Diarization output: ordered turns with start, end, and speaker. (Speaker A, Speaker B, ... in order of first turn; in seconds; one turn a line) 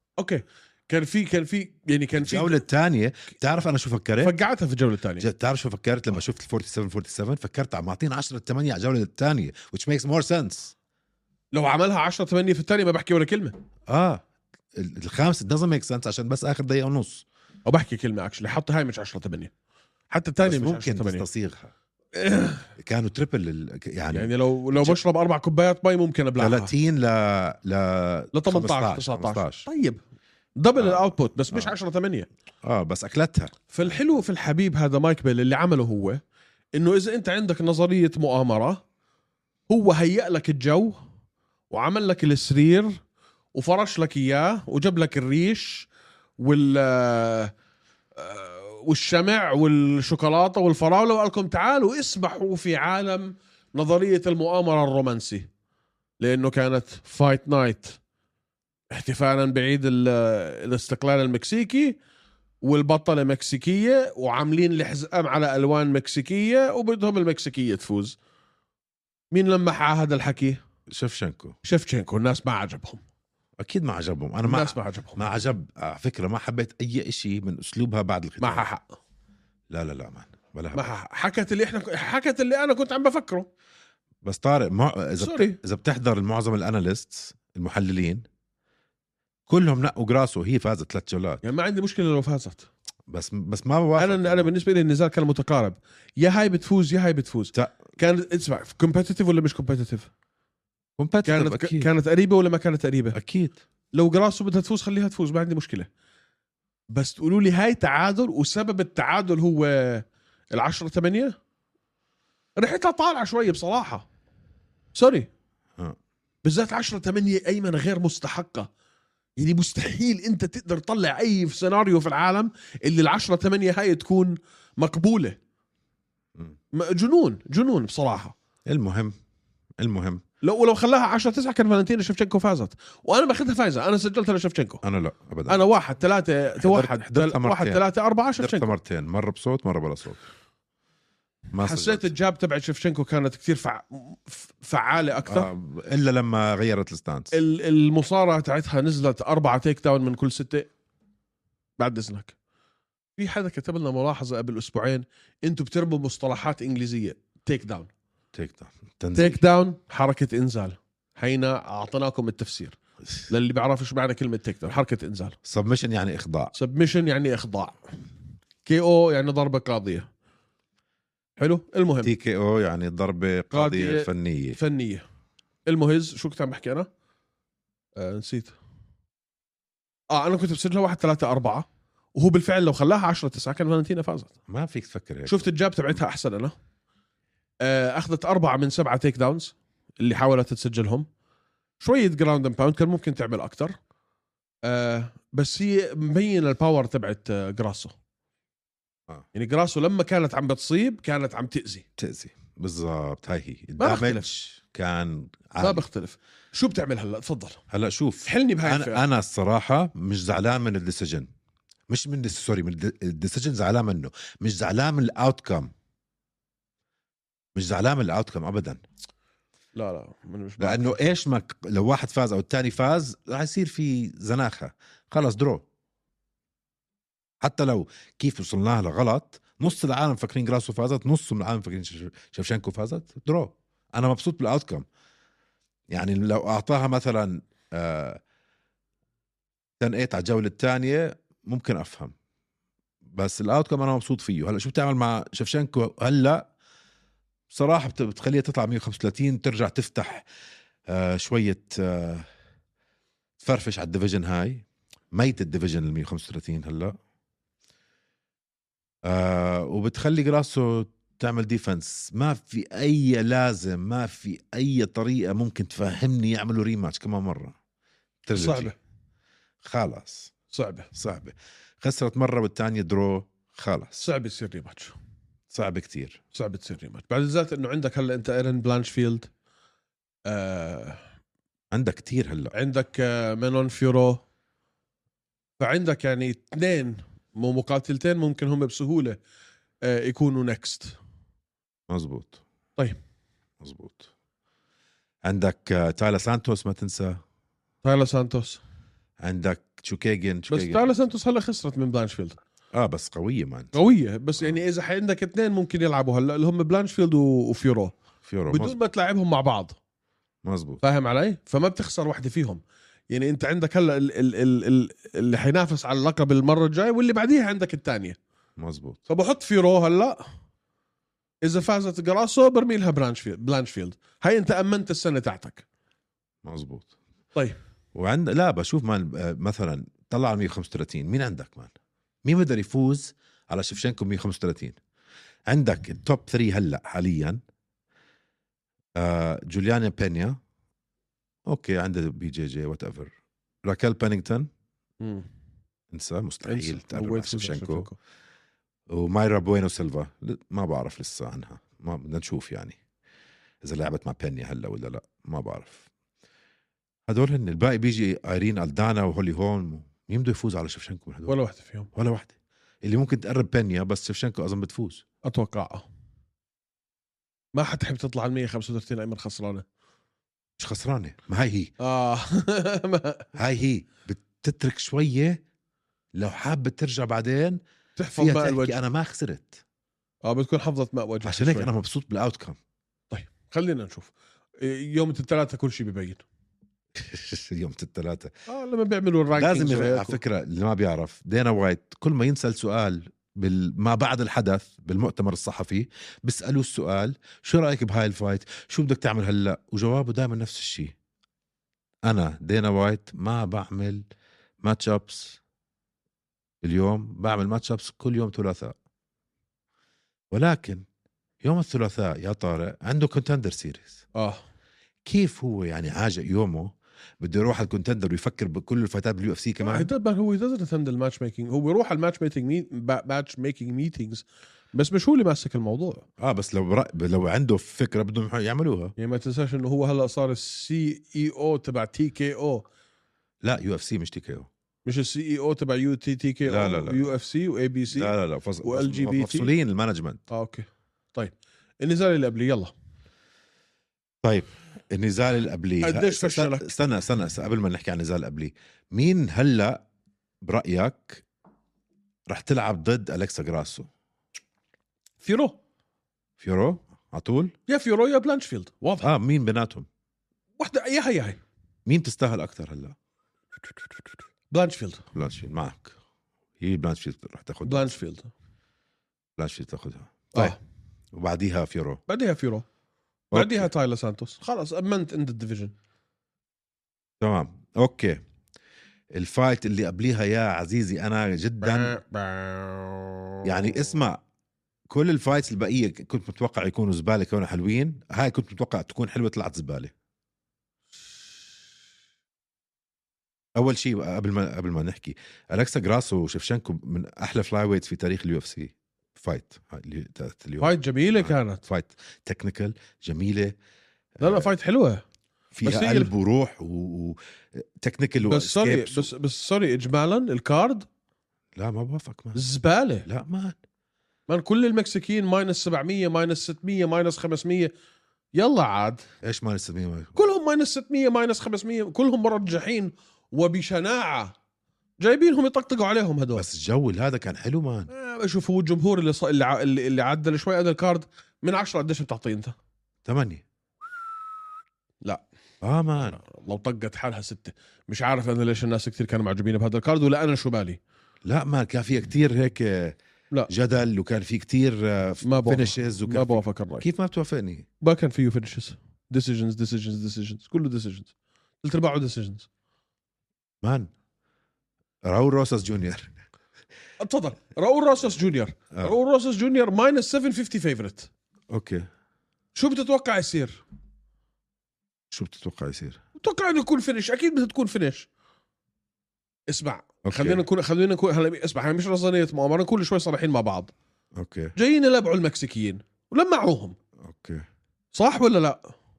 Speaker A: 0.2-2.6
Speaker B: 2.2-4.3
Speaker A: 4.2-5.2
Speaker B: 5.2-10.7
Speaker A: 11.5-13.5
Speaker B: 13.9-14.2
Speaker B: 14.7-17.2
Speaker A: 17.6-19.5
Speaker A: 20.1-21.2
Speaker B: 20.4-21.7
Speaker A: 22.1-22.6
Speaker B: 22.8-25.0
Speaker A: 24.1-26.7
Speaker B: 26.4-29.7
Speaker A: 28.3-30.0
Speaker A: 30.6-32.2
Speaker B: 30.8-31.7
Speaker B: 32.6-34.0
Speaker A: 33.7-36.2
Speaker A: 36.7-38.8
Speaker A: 39.7-41.0
Speaker A: 41.7-43.0
Speaker A: 43.5-45.9
Speaker A: 46.4-47.5
Speaker A: 48.1-55.5
Speaker A: 56.2-58.0
Speaker A: 58.9-62.0
Speaker A: 62.6-68.2
Speaker A: 69.3-70.6
Speaker B: 70.9-71.6
Speaker A: 71.6-73.0
Speaker B: 73.6-78.7
Speaker A: 74.4-75.2
Speaker A: 78.4-78.9
Speaker B: 79.7-80.9
Speaker A: 80.7-83.5
Speaker B: 84.2-88.2
Speaker A: 85.2-85.6
Speaker B: 89.5-91.4
Speaker A: 91.4-92.7
Speaker B: 93.1-94.5
Speaker A: 94.0-100.1
Speaker B: 97.5-97.8
Speaker B: 101.0-101.9
Speaker A: 101.2-103.2
Speaker B: 103.1-103.6
Speaker A: 103.9-105.9
Speaker A: 106.9-111.3
Speaker A: 112.6-114.0
Speaker A: 114.9-115.3
Speaker A: 116.4-118.7
Speaker A: 119.4-125.4
Speaker A: 126.7-128.3
Speaker B: 128.7-129.1
Speaker B: 129.8-130.2
Speaker A: 130.4-134.8
Speaker B: 134.8-135.6
Speaker A: 135.5-138.7
Speaker B: 136.6-137.8
Speaker B: 138.4-140.2
Speaker B: 141.5-142.1
Speaker A: 141.6-145.5
Speaker B: 145.3-147.3
Speaker A: 147.3-150.7
Speaker A: 151.8-152.3
Speaker A: 153.2-157.9
Speaker B: 158.3-159.4
Speaker A: 159.1-162.8
Speaker A: 163.3-165.3
Speaker B: 165.4-166.5
Speaker A: 166.5-167.8
Speaker A: 168.6-170.1
Speaker A: 171.4-172.1
Speaker B: 172.0-174.6
Speaker A: 173.5-175.0
Speaker A: 175.6-176.9
Speaker A: 177.9-178.6
Speaker A: 180.1-184.3
Speaker B: 184.5-185.4
Speaker A: 185.2-186.5
Speaker A: 187.6-191.1
Speaker A: 191.8-193.7
Speaker A: 194.6-197.9
Speaker A: 199.3-201.8
Speaker B: 202.0-205.8
Speaker A: 203.8-204.3
Speaker A: 205.6-207.6
Speaker B: 207.7-211.3
Speaker A: 208.2-209.0
Speaker B: 211.9-215.7
Speaker B: 217.6-218.8
Speaker A: 219.7-221.0
Speaker B: 220.6-225.6
Speaker B: 227.4-234.8
Speaker B: 235.9-238.2
Speaker B: 239.8-242.1
Speaker B: 243.1-246.4
Speaker B: 247.5-250.2
Speaker B: 250.9-252.2
Speaker B: 253.4-256.9
Speaker B: 259.0-267.5
Speaker B: 268.2-268.7
Speaker A: 268.3-268.7
Speaker B: 269.6-270.3
Speaker A: 270.5-270.9
Speaker B: 270.9-274.1
Speaker A: 274.0-274.9
Speaker B: 275.5-276.2
Speaker A: 276.3-279.3
Speaker A: 280.2-281.0
Speaker B: 281.7-282.5
Speaker A: 282.5-284.2
Speaker A: 285.6-289.2
Speaker A: 289.8-291.0
Speaker B: 291.9-292.4
Speaker B: 293.6-294.1
Speaker B: 295.2-297.2
Speaker A: 297.8-298.6
Speaker B: 299.2-300.9
Speaker A: 300.5-302.4
Speaker B: 302.7-303.7
Speaker A: 303.7-307.9
Speaker B: 308.2-308.8
Speaker A: 308.5-309.8
Speaker B: 310.4-310.8
Speaker A: 310.8-318.2
Speaker B: 318.6-319.0
Speaker A: 319.1-320.2
Speaker A: 321.4-325.6
Speaker B: 326.4-326.9
Speaker B: 327.9-331.7
Speaker B: 332.2-334.8
Speaker B: 335.5-337.4
Speaker B: 339.0-340.4
Speaker B: 341.5-343.1
Speaker B: 343.6-344.5
Speaker A: 345.0-345.3
Speaker B: 345.9-347.9
Speaker A: 346.4-347.9
Speaker B: 348.9-352.8
Speaker B: 353.6-355.9
Speaker B: 357.1-361.4
Speaker A: 361.3-361.9
Speaker B: 361.9-365.0
Speaker A: 365.2-365.9
Speaker A: 367.5-369.6
Speaker B: 370.6-371.7
Speaker A: 371.8-373.3
Speaker B: 373.3-375.4
Speaker B: 376.1-377.6
Speaker A: 378.0-378.8
Speaker B: 378.1-379.6
Speaker A: 380.2-381.7
Speaker B: 381.2-382.6
Speaker A: 383.1-386.2
Speaker B: 387.0-388.3
Speaker A: 388.5-390.2
Speaker B: 389.4-400.9
Speaker B: 402.1-404.0
Speaker B: 404.6-405.4
Speaker B: 406.6-408.7
Speaker B: 410.3-410.8
Speaker B: 411.4-414.0
Speaker A: 414.1-414.4
Speaker B: 415.0-419.9
Speaker A: 419.6-426.1
Speaker B: 426.2-428.9
Speaker A: 429.0-432.6
Speaker B: 433.4-434.5
Speaker A: 434.8-439.5
Speaker B: 436.4-437.0
Speaker B: 437.9-440.2
Speaker A: 440.3-442.7
Speaker B: 444.2-449.8
Speaker A: 445.8-446.7
Speaker B: 450.4-451.2
Speaker B: 452.3-453.9
Speaker A: 455.2-455.6
Speaker B: 456.4-457.5
Speaker A: 457.7-459.1
Speaker B: 459.0-459.9
Speaker A: 460.6-461.4
Speaker B: 461.9-462.9
Speaker A: 464.5-465.1
Speaker B: 465.1-466.0
Speaker B: 466.6-467.9
Speaker A: 467.6-468.3
Speaker B: 469.4-470.6
Speaker B: 471.1-472.0
Speaker A: 472.1-472.6
Speaker B: 473.3-473.7
Speaker A: 473.3-475.7
Speaker B: 477.2-478.2
Speaker B: 479.1-482.0
Speaker A: 481.6-483.9
Speaker B: 483.4-484.2
Speaker B: 484.9-489.9
Speaker B: 493.6-503.5
Speaker A: 500.6-501.6
Speaker B: 504.2-504.5
Speaker A: 504.2-505.0
Speaker B: 505.5-509.1
Speaker A: 505.6-506.1
Speaker A: 508.2-510.9
Speaker B: 511.6-512.4
Speaker A: 512.3-513.1
Speaker B: 513.0-513.5
Speaker A: 514.3-517.7
Speaker A: 518.3-519.0
Speaker B: 519.2-520.3
Speaker A: 520.1-524.3
Speaker A: 525.0-526.5
Speaker B: 526.3-527.9
Speaker A: 527.9-532.5
Speaker B: 533.0-533.4
Speaker B: 535.6-536.2
Speaker A: 536.0-540.8
Speaker B: 541.2-543.0
Speaker B: 543.5-547.7
Speaker A: 545.2-546.9
Speaker A: 547.8-552.5
Speaker B: 553.6-553.9
Speaker B: 555.0-556.1
Speaker A: 557.0-561.1
Speaker B: 561.5-561.9
Speaker A: 562.5-563.6
Speaker B: 565.1-566.0
Speaker A: 566.2-568.1
Speaker A: 569.5-573.7
Speaker B: 570.0-570.4
Speaker B: 574.2-574.5
Speaker A: 574.5-576.8
Speaker B: 577.0-577.4
Speaker A: 577.9-578.7